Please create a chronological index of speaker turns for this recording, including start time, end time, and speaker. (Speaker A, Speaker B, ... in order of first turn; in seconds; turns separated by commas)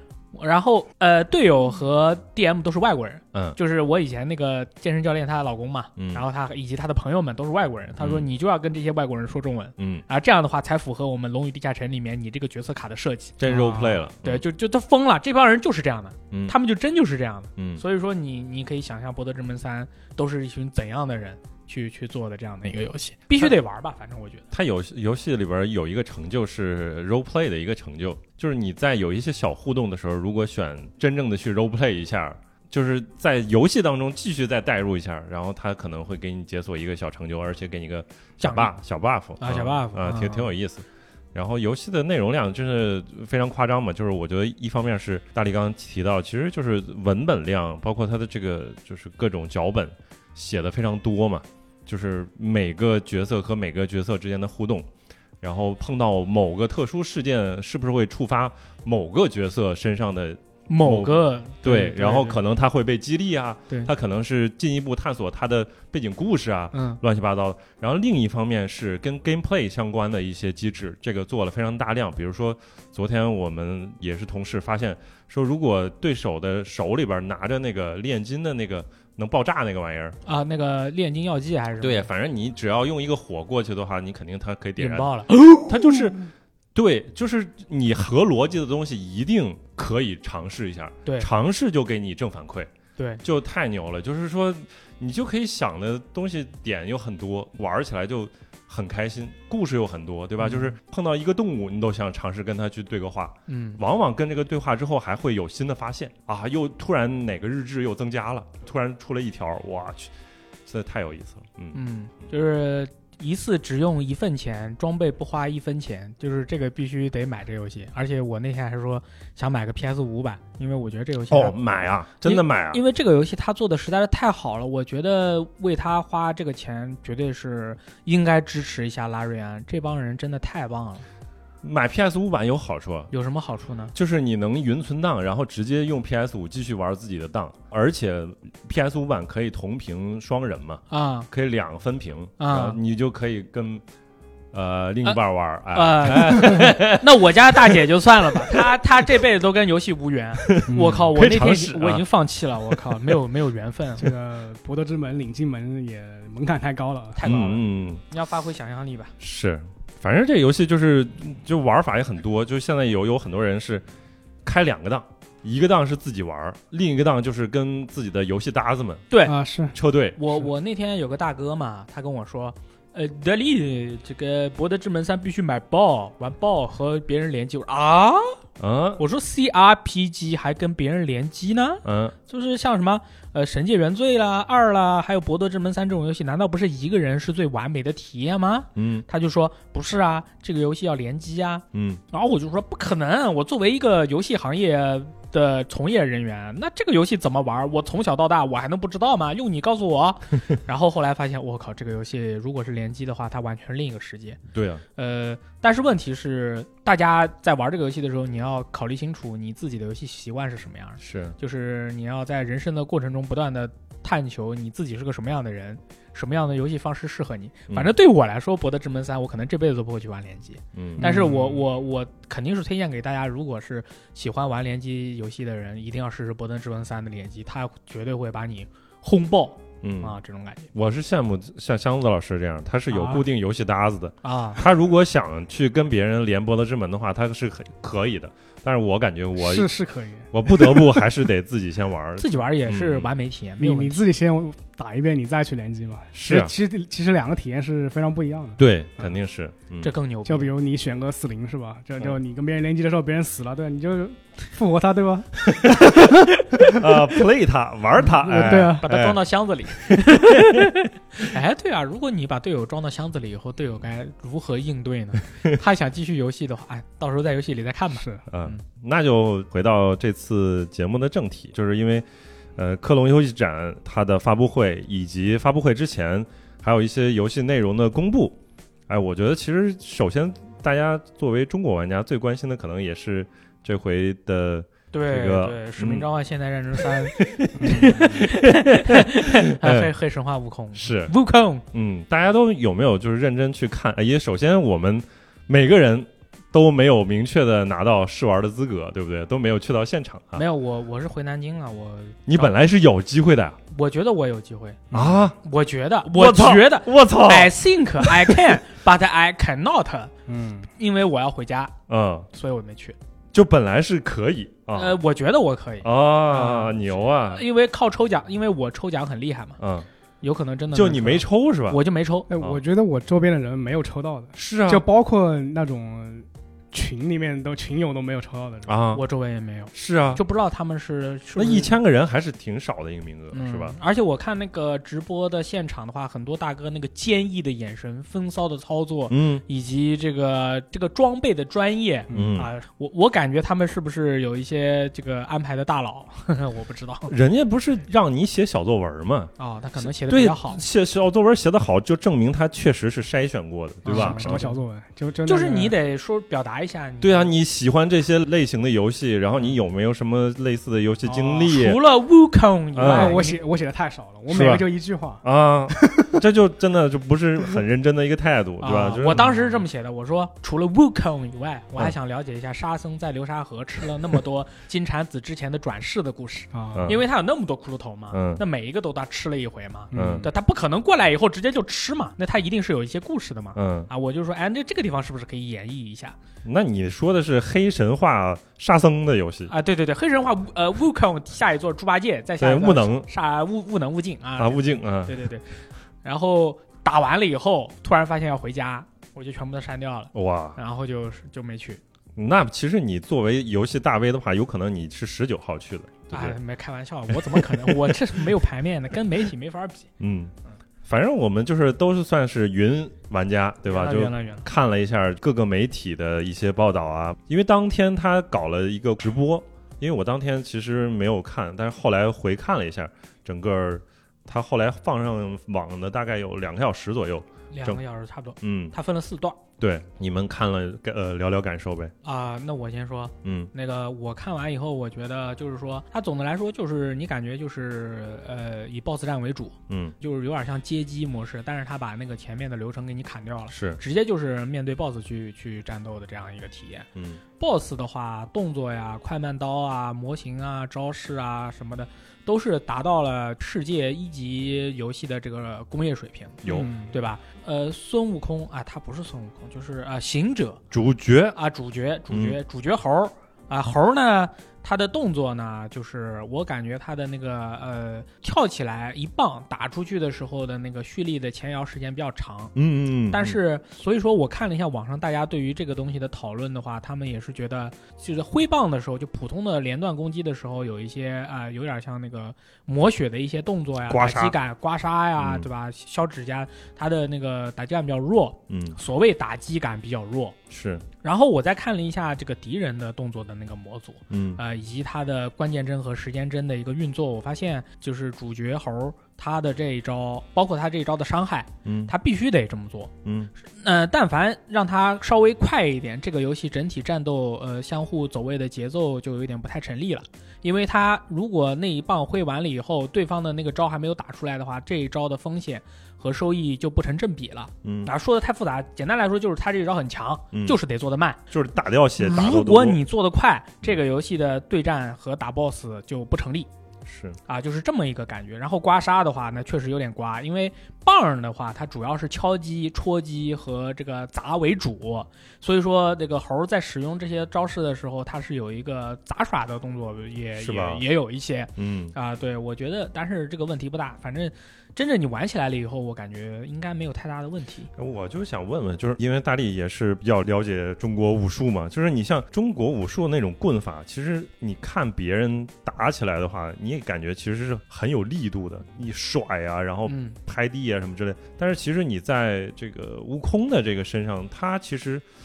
Speaker A: 0.3-24.4, Speaker B: 6.0-6.2, Speaker B: 8.0-8.3, Speaker B: 9.8-10.0, Speaker B: 13.4-14.4, Speaker B: 16.3-16.6, Speaker B: 17.6-17.8, Speaker B: 24.5-54.9, Speaker A: 38.4-38.7, Speaker A: 39.4-40.5, Speaker B: 55.4-80.2, Speaker A: 60.7-62.4, Speaker A: 66.7-67.0, Speaker A: 80.2-82.1, Speaker B: 81.8-86.2, Speaker A: 84.8-86.0, Speaker B: 86.8-92.7, Speaker B: 93.2-110.1, Speaker A: 100.4-100.7, Speaker A: 103.5-103.8, Speaker B: 110.7-111.8, Speaker A: 111.7-121.6, Speaker B: 121.3-122.8, Speaker A: 122.2-131.1, Speaker B: 131.6-133.1, Speaker A: 133.1-133.9, Speaker B: 133.9-143.8, Speaker A: 140.9-141.3, Speaker A: 142.4-142.8, Speaker B: 144.5-147.1, Speaker A: 145.7-154.1, Speaker B: 150.4-152.0, Speaker C: 150.7-151.1, Speaker C: 154.0-157.3, Speaker A: 157.2-159.1, Speaker B: 157.2-158.0, Speaker B: 159.2-163.8, Speaker B: 164.4-169.1, Speaker A: 169.1-169.4, Speaker C: 169.3-169.8, Speaker B: 169.7-170.2, Speaker A: 170.2-178.4, Speaker B: 178.6-179.0, Speaker A: 179.0-204.4, Speaker B: 181.8-182.2, Speaker B: 188.8-189.1, Speaker B: 191.7-192.0, Speaker B: 204.5-204.8, Speaker A: 205.0-230.7, Speaker B: 211.0-211.4, Speaker B: 220.8-221.2, Speaker C: 221.0-221.5, Speaker B: 229.8-230.2, Speaker B: 230.7-239.7, Speaker A: 232.9-233.2, Speaker A: 234.2-234.6, Speaker C: 239.4-241.0, Speaker B: 240.3-243.1, Speaker A: 242.2-244.0, Speaker C: 243.6-249.1, Speaker B: 246.1-246.5, Speaker B: 248.6-249.9, Speaker A: 249.8-250.5, Speaker C: 250.2-256.8, Speaker B: 255.5-259.2, Speaker C: 258.2-258.9, Speaker A: 258.3-268.6, Speaker B: 259.8-260.7, Speaker C: 267.9-268.2, Speaker B: 268.3-272.1, Speaker B: 272.6-278.4, Speaker B: 278.9-286.1, Speaker A: 284.9-291.6, Speaker B: 286.8-289.9, Speaker C: 287.6-288.1, Speaker B: 290.8-291.1, Speaker B: 291.7-300.4, Speaker A: 300.4-302.5, Speaker B: 302.3-303.6, Speaker A: 303.7-304.9, Speaker C: 304.9-305.2, Speaker B: 304.9-305.4, Speaker A: 305.4-310.1, Speaker B: 306.1-308.5, Speaker C: 310.3-310.7, Speaker A: 310.7-311.7, Speaker B: 311.9-312.3, Speaker A: 312.3-313.0, Speaker B: 313.3-315.0, Speaker A: 314.7-319.6, Speaker B: 315.8-317.4, Speaker B: 319.6-319.9, Speaker A: 320.2-322.3, Speaker B: 320.7-321.8, Speaker C: 322.3-328.7, Speaker B: 324.4-324.8, Speaker B: 328.7-329.0, Speaker A: 328.9-331.8, Speaker B: 329.7-330.2, Speaker B: 331.4-333.8, Speaker A: 333.3-347.1, Speaker B: 339.1-339.4, Speaker C: 342.1-342.4, Speaker B: 342.1-342.5, Speaker B: 347.1-354.5, Speaker A: 349.4-350.6, Speaker A: 353.9-354.6, Speaker C: 353.9-355.8, Speaker A: 355.3-357.3, Speaker B: 357.0-361.8, Speaker A: 361.4-363.4, Speaker B: 362.8-363.2, Speaker C: 362.8-366.2, Speaker B: 364.3-364.6, Speaker B: 365.2-369.4, Speaker A: 368.6-386.2, Speaker C: 376.5-376.9, Speaker B: 376.8-377.0, Speaker B: 378.1-378.4, Speaker C: 379.9-380.3, Speaker B: 379.9-380.3, Speaker B: 383.6-383.9, Speaker B: 386.4-389.5, Speaker A: 389.5-401.8, Speaker B: 392.4-393.1, Speaker B: 394.4-395.2, Speaker B: 400.1-400.6, Speaker B: 402.2-406.4, Speaker A: 406.1-409.9, Speaker B: 407.3-407.9, Speaker B: 410.0-410.3, Speaker B: 410.9-427.8, Speaker A: 413.7-414.5, Speaker A: 427.5-429.4, Speaker B: 428.4-428.8, Speaker B: 429.6-431.9, Speaker A: 432.0-446.9, Speaker B: 433.2-433.5, Speaker B: 439.7-439.9, Speaker B: 443.5-443.8, Speaker B: 447.0-447.2, Speaker A: 447.4-460.6, Speaker B: 456.4-456.7, Speaker C: 456.5-456.9, Speaker B: 460.7-461.4, Speaker A: 461.3-472.5, Speaker B: 462.1-462.4, Speaker B: 472.6-473.4, Speaker A: 473.1-490.4, Speaker B: 483.9-484.4, Speaker B: 485.2-485.5, Speaker B: 488.5-488.8, Speaker B: 490.5-490.9, Speaker A: 491.0-502.9, Speaker B: 494.1-494.4, Speaker B: 501.6-501.9, Speaker B: 503.1-503.3, Speaker A: 503.5-521.2, Speaker B: 517.6-517.9, Speaker B: 520.3-520.6, Speaker B: 521.3-522.8, Speaker A: 522.0-526.5, Speaker B: 526.9-527.2, Speaker A: 527.3-547.7, Speaker B: 540.4-540.8, Speaker B: 541.6-542.0, Speaker B: 547.8-565.1, Speaker A: 559.9-560.2